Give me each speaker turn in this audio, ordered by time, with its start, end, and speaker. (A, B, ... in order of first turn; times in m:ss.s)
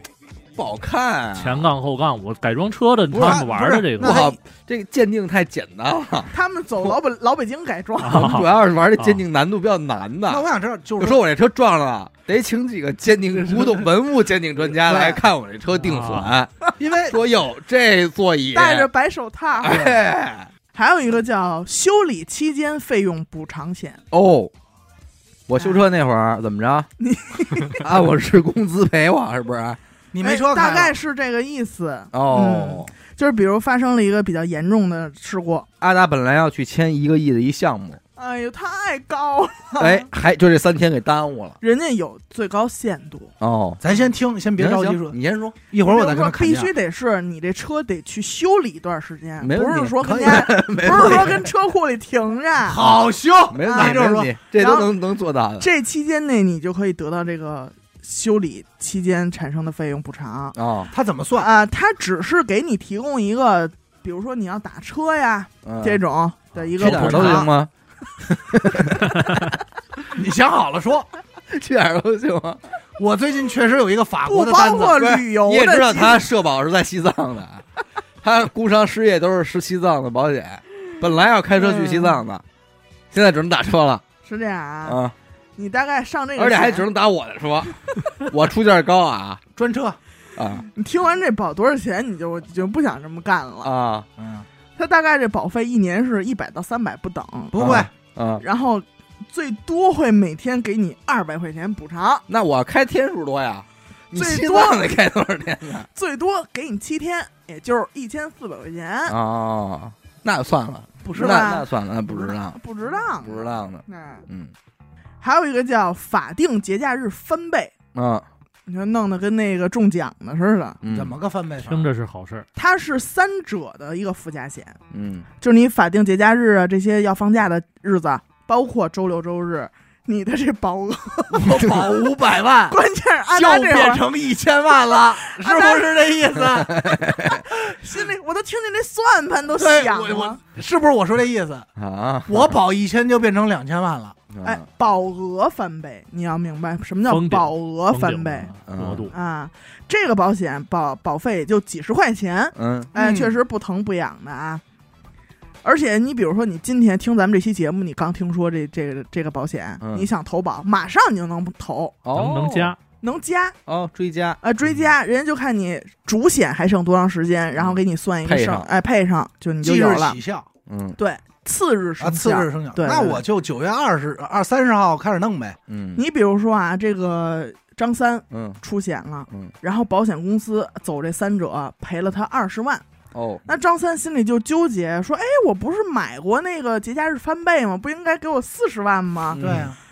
0:00.6-0:01.7 A
0:01.4-0:04.2 B
0:03.1-0:04.3 C
0:03.1-0:07.0 A
0:06.3-0:08.4 D
0:08.0-0:09.2 B
0:08.1-0:18.9 A
0:10.3-0:11.2 C
0:13.5-0:13.8 C
0:14.6-0:15.2 C
0:15.8-0:16.3 B
0:16.8-0:17.2 C
0:18.5-0:19.9 D
0:19.6-0:20.5 A
0:20.7-0:24.0 D
0:24.1-0:24.5 A
0:25.5-0:26.9 A
0:27.0-0:27.8 D
0:27.7-0:29.8 A
0:30.1-0:31.0 C
0:30.2-0:35.7 D
0:32.1-0:32.9 A
0:35.8-0:38.0 A
0:38.2-0:40.1 D
0:39.8-0:41.6 A
0:41.6-0:43.3 D
0:43.4-0:43.8 A
0:43.8-0:45.2 C
0:44.6-0:45.6 A
0:45.7-0:46.7 C
0:45.8-0:52.9 D
0:49.4-0:51.5 A
0:50.0-0:51.3 C
0:52.6-0:54.3 C
0:52.8-0:55.7 A
0:53.6-0:54.9 D
0:55.6-1:00.6 D
1:00.6-1:00.9 A
1:00.9-1:01.5 C
1:01.4-1:07.5 D
1:05.6-1:06.0 A
1:06.8-1:07.5 C
1:06.8-1:07.7 A
1:08.3-1:09.4 A
1:10.0-1:11.1 C
1:11.5-1:12.6 A
1:13.0-1:15.0 C
1:14.3-1:16.2 D
1:15.0-1:17.6 A
1:18.2-1:22.4 A
1:21.6-1:22.2 D
1:23.1-1:24.0 A
1:24.2-1:25.0 D
1:24.8-1:25.1 A
1:25.6-1:26.9 D
1:26.4-1:29.4 A
1:29.6-1:30.0 C
1:30.4-1:30.6 A
1:30.7-1:33.7 D
1:33.6-1:34.1 A
1:34.2-1:34.5 C
1:34.8-1:37.8 D
1:37.5-1:37.9 C
1:37.5-1:38.4 A
1:38.4-1:42.2 D
1:42.3-1:45.9 A
1:44.1-1:44.9 D
1:45.9-1:49.2 D
1:49.1-1:52.6 A
1:51.0-1:54.2 D
1:53.1-1:54.5 A
1:55.2-1:57.7 D
1:57.9-1:58.3 A
1:58.7-2:00.8 D
2:00.8-2:01.2 A
2:00.9-2:01.9 C
2:01.6-2:02.5 B
2:02.6-2:04.8 D
2:04.9-2:05.3 A
2:05.4-2:11.8 D
2:11.3-2:12.8 C
2:11.6-2:12.1 A
2:12.7-2:14.0 D
2:13.3-2:16.9 C
2:15.2-2:16.2 D
2:16.4-2:17.4 A
2:17.2-2:20.4 D
2:19.6-2:21.7 C
2:21.8-2:22.6 A
2:22.3-2:24.2 C
2:24.3-2:24.6 A
2:24.4-2:28.5 D
2:27.1-2:29.1 B
2:28.7-2:29.1 A
2:29.1-2:34.6 D
2:32.6-2:32.9 A
2:32.9-2:33.4 C
2:35.6-2:41.9 D
2:39.8-2:40.1 A
2:42.0-2:42.8 A
2:42.1-2:42.8 B
2:43.0-2:43.6 D
2:43.7-2:44.4 A
2:44.4-2:50.2 D
2:47.6-2:48.7 A
2:49.6-2:50.5 C
2:50.7-2:51.0 A
2:51.0-2:53.2 D
2:52.0-2:55.6 C
2:55.7-2:56.0 A
2:55.9-3:02.8 D
2:58.3-2:58.6 A
3:03.1-3:03.4 A
3:03.4-3:09.4 D
3:09.3-3:09.7 A
3:09.4-3:09.8 C